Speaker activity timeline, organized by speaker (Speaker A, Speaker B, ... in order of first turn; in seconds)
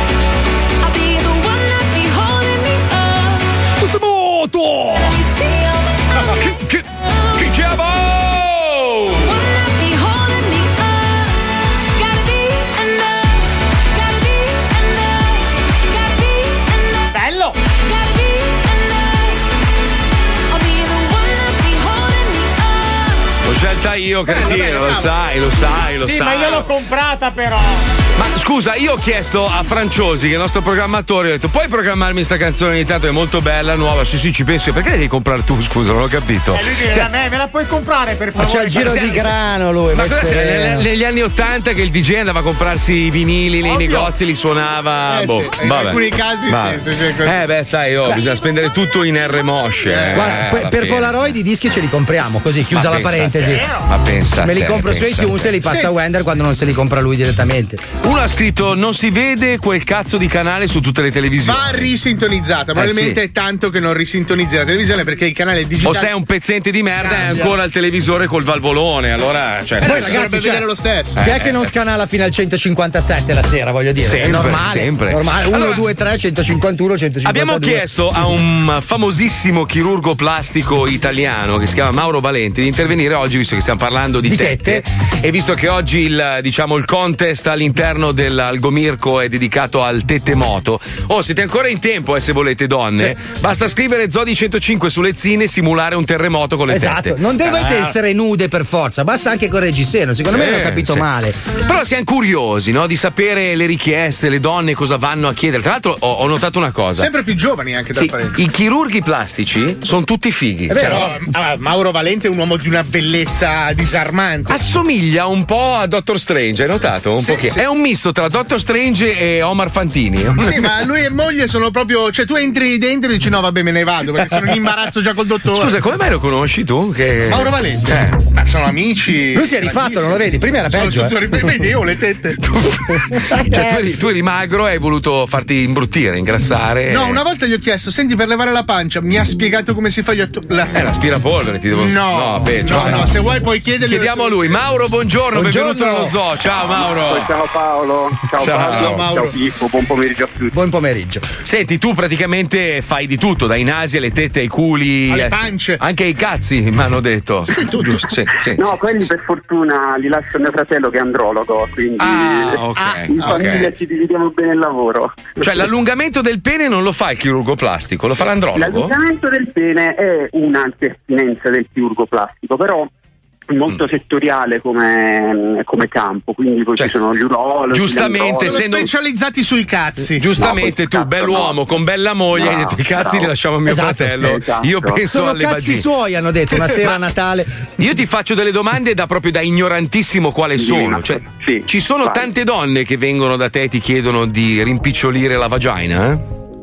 Speaker A: 0.8-3.6, 5.0-6.5, 7.0-7.5, 9.2-11.4, 11.9-19.5, 20.5-23.2
Speaker B: 3.8-5.2, 38.3-40.9, 50.1-53.7, 54.4-57.8, 69.8-77.9, 84.2-84.8, 96.7-101.4, 110.7-111.1, 129.3-131.5, 133.2-133.8, 142.7-143.1, 145.3-146.2, 150.5-151.3, 183.7-184.2, 185.0-187.5
Speaker C: 6.3-9.2, 23.4-26.7, 28.1-37.1, 38.8-39.2, 39.9-51.2, 52.7-55.6, 58.0-61.9, 62.8-63.2, 65.8-70.3, 71.1-71.7, 74.0-75.8, 77.2-97.9, 100.3-101.1, 101.6-107.1, 107.9-111.1, 114.5-120.6, 125.5-128.2, 132.4-137.2, 140.7-143.1, 143.8-147.3, 148.4-149.1, 151.4-158.8, 162.0-163.7, 165.4-168.9, 177.7-178.9, 180.1-185.8, 187.8-196.2
Speaker D: 17.1-17.6, 26.0-27.8, 36.5-39.2
Speaker E: 24.3-25.1, 43.7-44.1, 45.1-47.4, 49.9-50.4, 55.6-55.9, 61.4-66.1, 67.0-67.5, 69.8-71.2, 107.0-108.4, 110.7-114.6, 117.2-117.6, 120.4-125.7, 127.3-132.4, 136.9-140.8, 141.7-144.6, 148.6-149.3, 155.1-155.8, 157.5-158.0, 178.4-180.3
Speaker F: 146.6-150.5, 158.5-165.4, 168.5-172.9, 173.5-178.6, 180.4-181.6, 182.3-183.3, 184.2-185.0, 190.6-192.3